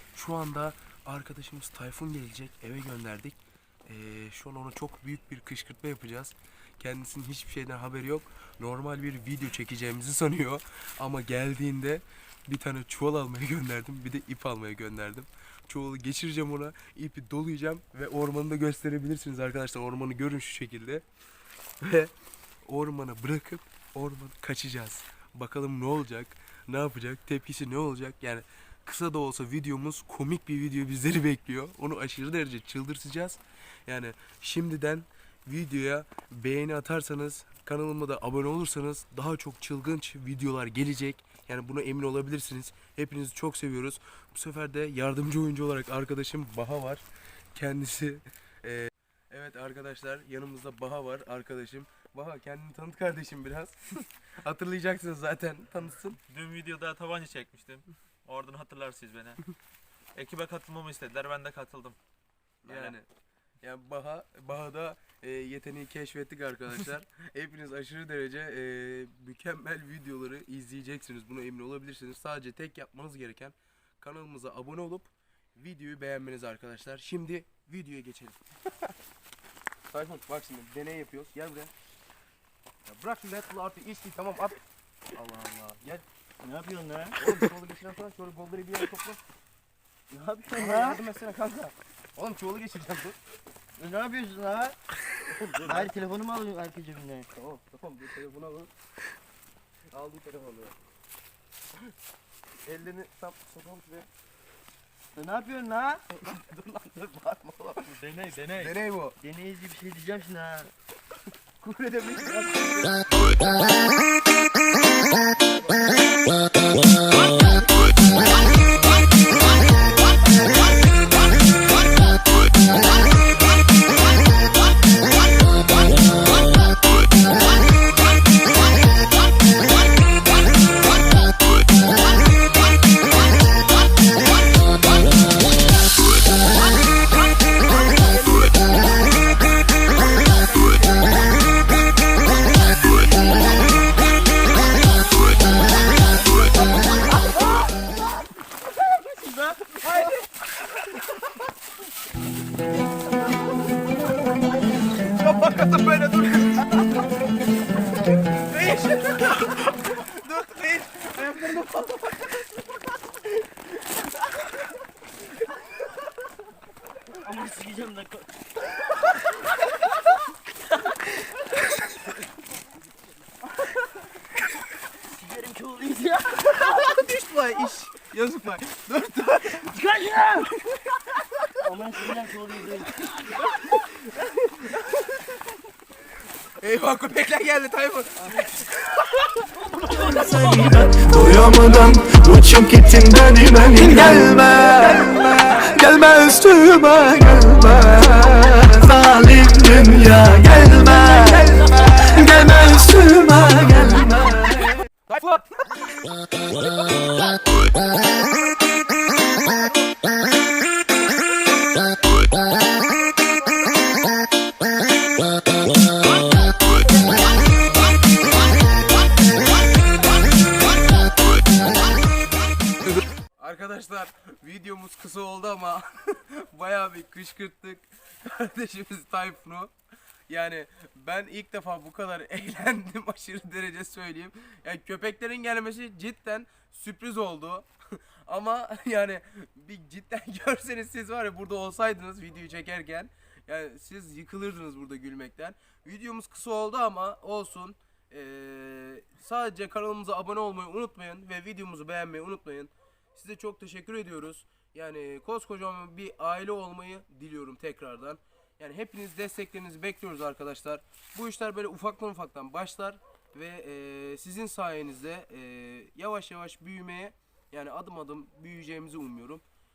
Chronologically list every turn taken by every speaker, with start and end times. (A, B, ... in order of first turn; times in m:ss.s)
0:00.1-0:21.0 A
0:21.8-0:22.1 A
0:22.6-0:56.2 A
0:56.3-0:59.4 B
1:00.1-1:02.0 B
1:02.6-1:03.0 B
1:02.6-1:03.1 A
1:03.6-1:18.4 A
1:19.9-1:21.7 A
1:22.8-1:24.6 A
1:25.1-1:26.0 A
1:26.4-1:27.2 C
1:27.2-1:29.2 A
1:30.1-1:31.0 C
1:30.5-1:33.2 A
1:33.8-1:34.8 C
1:35.3-1:35.9 A
1:35.6-1:37.3 C
1:37.3-1:38.7 A
1:39.9-1:40.8 A
1:42.6-1:44.1 A
1:45.1-1:46.0 C
1:46.1-1:48.0 A
1:47.8-1:48.8 B
1:48.5-1:49.2 A
1:49.2-1:50.7 C
1:51.6-1:53.5 A
1:55.5-1:55.9 A
2:17.8-2:18.8 A
2:20.2-2:21.1 A
2:26.2-2:27.1 A
2:27.3-2:27.6 C
2:28.9-2:29.9 C
2:29.7-2:30.2 A
2:35.0-2:37.0 A
2:38.3-2:42.6 A
2:47.1-2:48.3 C
2:48.9-2:49.6 C
2:55.0-2:56.7 C
2:56.4-2:59.9 A
2:59.6-3:00.6 C
3:01.5-3:03.1 C
3:06.5-3:09.6 A
3:10.1-3:24.8 D
3:14.4-3:15.9 A
3:24.8-3:26.1 A
3:43.4-3:49.7 A
3:50.3-4:29.4 A